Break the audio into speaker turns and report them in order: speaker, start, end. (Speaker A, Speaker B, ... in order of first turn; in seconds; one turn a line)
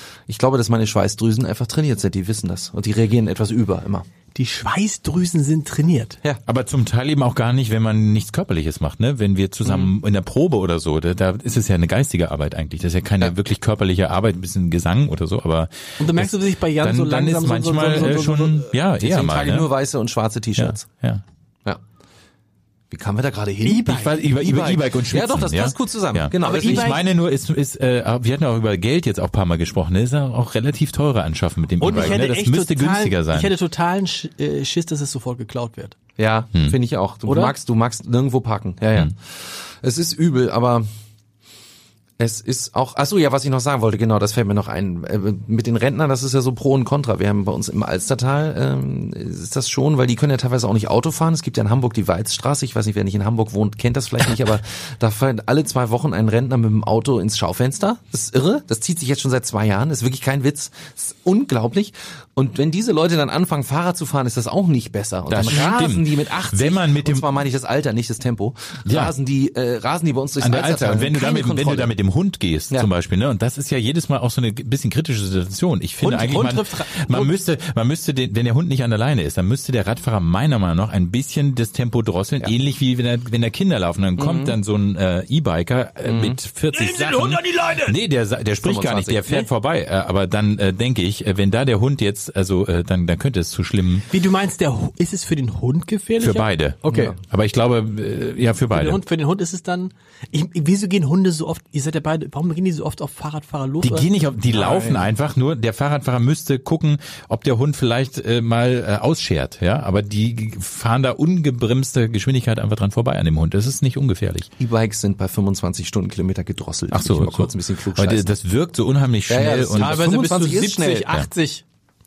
Speaker A: 0.3-4.0
Speaker B: 4.3-6.2
Speaker C: 6.5-19.7
Speaker A: 9.6-9.9
Speaker B: 16.0-18.6
Speaker A: 19.0-20.9
Speaker C: 20.6-21.2
Speaker A: 22.9-27.0
Speaker B: 23.6-24.2
Speaker C: 23.9-33.5
Speaker B: 26.4-27.0
Speaker B: 31.8-36.0
Speaker A: 36.2-40.8
Speaker B: 37.2-37.5
Speaker A: 42.2-71.9
Speaker C: 65.3-67.4
Speaker C: 68.8-69.1
Speaker C: 70.4-94.0
Speaker B: 76.0-77.3
Speaker A: 84.2-84.6
Speaker A: 86.0-86.4
Speaker B: 86.7-87.9
Speaker A: 88.6-89.2
Speaker B: 94.1-97.1
Speaker C: 96.2-99.0
Speaker A: 96.9-97.2
Speaker B: 98.7-104.1
Speaker C: 103.8-114.5
Speaker A: 104.5-105.0
Speaker A: 114.6-118.3
Speaker C: 116.9-120.0
Speaker A: 119.3-121.1
Speaker B: 119.7-121.6